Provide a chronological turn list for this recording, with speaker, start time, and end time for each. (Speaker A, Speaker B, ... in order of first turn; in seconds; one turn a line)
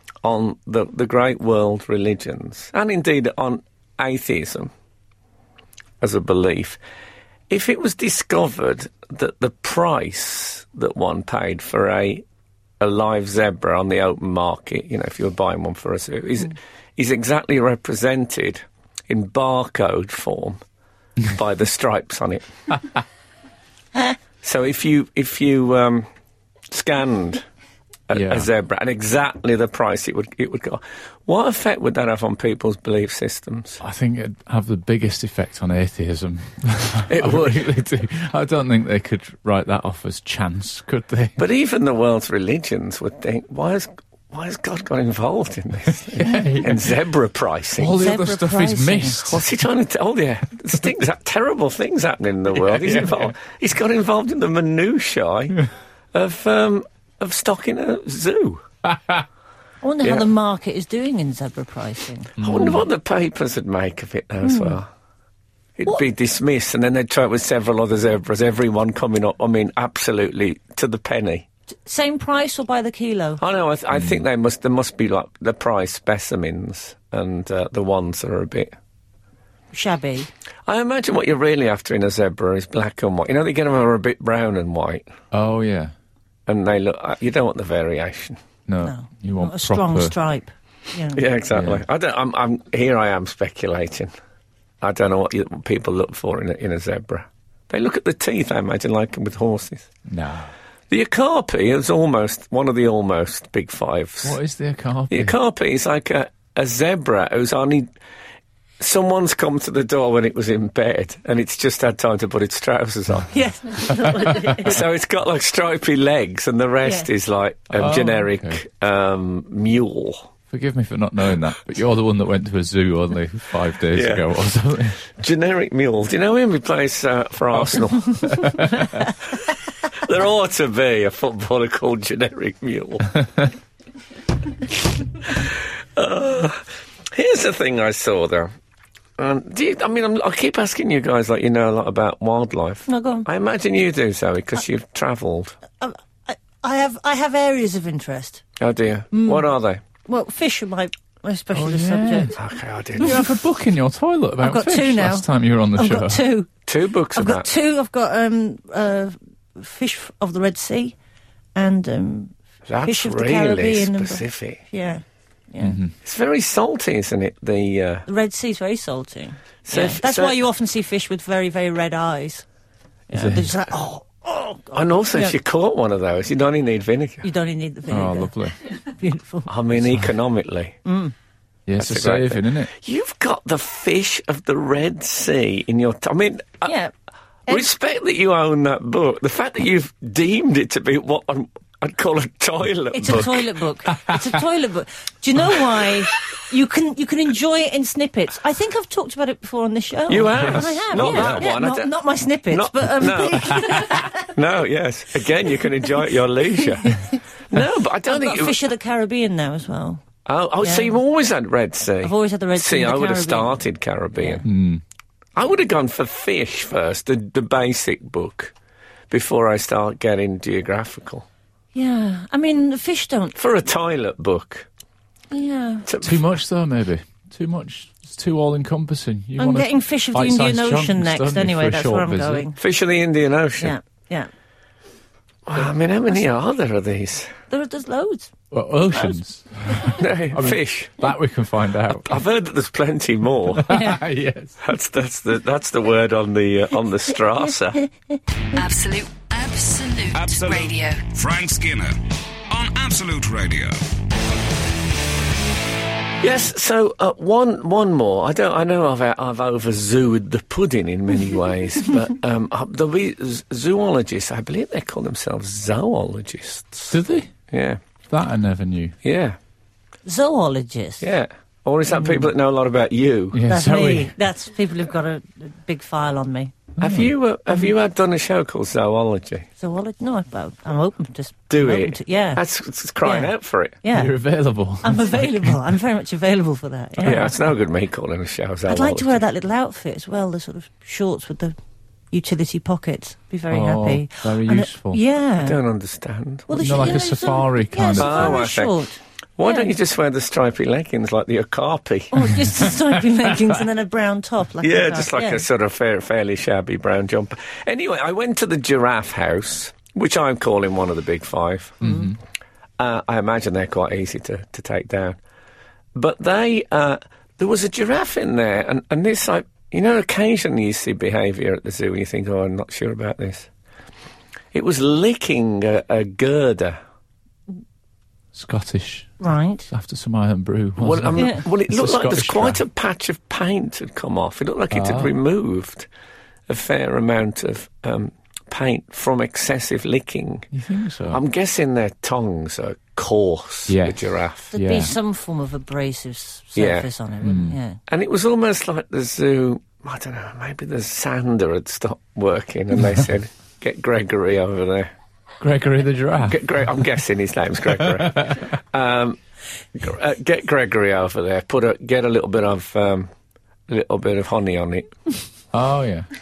Speaker A: 0.2-4.7
Speaker A: 6.0-6.8
Speaker A: 7.5-12.2
Speaker A: 12.8-20.6
Speaker A: 21.3-22.4
Speaker A: 24.4-26.1
Speaker A: 26.7-27.4
Speaker A: 28.1-33.8
Speaker B: 28.1-28.5
Speaker B: 33.8-41.4
Speaker A: 37.1-37.7
Speaker A: 41.4-48.0
Speaker B: 46.1-46.9
Speaker B: 47.8-49.5
Speaker C: 48.0-49.2
Speaker A: 49.2-55.6
Speaker B: 52.7-53.3
Speaker A: 56.1-58.6
Speaker B: 58.9-59.2
Speaker C: 59.8-62.3
Speaker A: 60.0-60.3
Speaker B: 62.4-62.8
Speaker A: 62.4-64.9
Speaker C: 64.5-64.8
Speaker A: 65.8-71.5
Speaker C: 71.9-73.4
Speaker A: 73.4-78.7
Speaker C: 79.7-80.3
Speaker A: 80.7-85.0
Speaker B: 85.3-85.9
Speaker A: 86.5-88.4
Speaker B: 88.7-90.2
Speaker C: 88.8-91.2
Speaker A: 91.1-94.1
Speaker B: 91.5-91.8
Speaker A: 94.8-99.9
Speaker B: 100.1-100.5
Speaker A: 100.9-104.4
Speaker B: 104.2-105.3
Speaker A: 105.1-107.9
Speaker A: 108.8-113.3
Speaker C: 113.3-114.8
Speaker A: 114.5-120.3
Speaker C: 116.8-117.1
Speaker B: 117.7-118.6
Speaker B: 120.5-125.1
Speaker A: 123.9-124.3
Speaker A: 125.1-128.5
Speaker B: 128.2-129.1
Speaker A: 129.9-133.1
Speaker A: 135.2-138.5
Speaker A: 139.2-145.6
Speaker C: 142.9-143.3
Speaker C: 145.8-148.4
Speaker A: 148.6-149.8
Speaker C: 149.1-149.5
Speaker C: 150.1-152.4
Speaker B: 151.5-152.4
Speaker A: 152.4-153.3
Speaker B: 153.0-156.2
Speaker C: 154.4-156.5
Speaker A: 156.7-157.5
Speaker C: 157.1-161.0
Speaker C: 161.6-165.8
Speaker A: 162.7-164.6
Speaker B: 165.6-165.9
Speaker A: 166.0-168.1
Speaker C: 168.1-172.5
Speaker A: 169.7-170.4
Speaker C: 173.1-175.4
Speaker B: 173.1-173.6
Speaker A: 174.7-177.3
Speaker C: 177.2-178.3
Speaker B: 177.9-178.6
Speaker C: 178.9-179.5
Speaker A: 179.5-180.8
Speaker B: 179.8-180.1
Speaker C: 180.8-181.1
Speaker B: 181.7-182.7
Speaker A: 181.8-186.8
Speaker C: 186.7-186.9
Speaker A: 187.5-193.4
Speaker C: 192.9-204.3
Speaker A: 200.1-201.9
Speaker B: 200.4-201.5
Speaker A: 202.5-208.6
Speaker C: 206.6-207.2
Speaker C: 208.0-210.0
Speaker A: 210.3-214.5
Speaker C: 210.6-211.0
Speaker C: 212.0-213.6
Speaker C: 214.2-214.4
Speaker B: 214.4-214.8
Speaker A: 215.4-218.5
Speaker A: 219.1-221.3
Speaker C: 221.7-223.4
Speaker A: 223.3-224.7
Speaker C: 225.3-225.9
Speaker A: 225.9-226.2
Speaker B: 226.0-232.5
Speaker C: 229.4-232.6
Speaker A: 232.6-233.8
Speaker C: 233.6-234.3
Speaker A: 235.5-237.3
Speaker C: 237.5-238.3
Speaker B: 238.5-242.2
Speaker A: 240.0-241.1
Speaker A: 241.9-243.9
Speaker B: 243.6-244.6
Speaker C: 243.7-244.0
Speaker A: 244.6-247.8
Speaker D: 248.5-251.1
Speaker E: 250.1-252.0
Speaker E: 252.5-253.8
Speaker A: 256.2-267.0
Speaker B: 266.9-267.3
Speaker A: 267.5-267.8
Speaker B: 268.1-269.0
Speaker A: 269.0-269.4
Speaker C: 270.1-271.1
Speaker A: 271.0-273.4
Speaker B: 273.3-274.1
Speaker C: 273.5-276.6
Speaker B: 276.8-277.1
Speaker A: 276.8-279.5
Speaker C: 279.6-282.4
Speaker A: 281.5-283.8
Speaker C: 283.0-283.3
Speaker C: 283.8-284.1
Speaker B: 283.9-285.6
Speaker C: 284.8-287.4
Speaker B: 287.0-287.3
Speaker A: 287.0-289.2
Speaker C: 288.7-291.6
Speaker C: 292.1-295.6
Speaker B: 293.5-295.0
Speaker A: 295.4-297.1
Speaker C: 296.5-299.7
Speaker B: 296.6-298.5
Speaker A: 298.0-298.7
Speaker A: 299.4-302.3
Speaker C: 302.1-305.5
Speaker A: 304.6-311.9
Speaker B: 311.8-312.2
Speaker C: 311.8-312.1
Speaker A: 312.8-315.2
Speaker A: 315.9-323.5
Speaker A: 324.5-326.8
Speaker B: 328.3-329.2
Speaker C: 329.2-329.7
Speaker B: 329.7-332.6
Speaker A: 330.8-335.9
Speaker C: 331.2-331.4
Speaker B: 334.7-335.1
Speaker A: 336.5-340.5
Speaker B: 340.5-341.2
Speaker A: 341.1-344.5
Speaker B: 343.7-344.9
Speaker C: 344.5-347.8
Speaker A: 346.6-346.9
Speaker B: 347.2-347.6
Speaker A: 347.9-354.9
Speaker B: 355.4-356.4
Speaker A: 356.3-359.2
Speaker B: 357.8-358.5
Speaker A: 359.8-363.1
Speaker A: 363.7-364.9
Speaker B: 365.5-366.1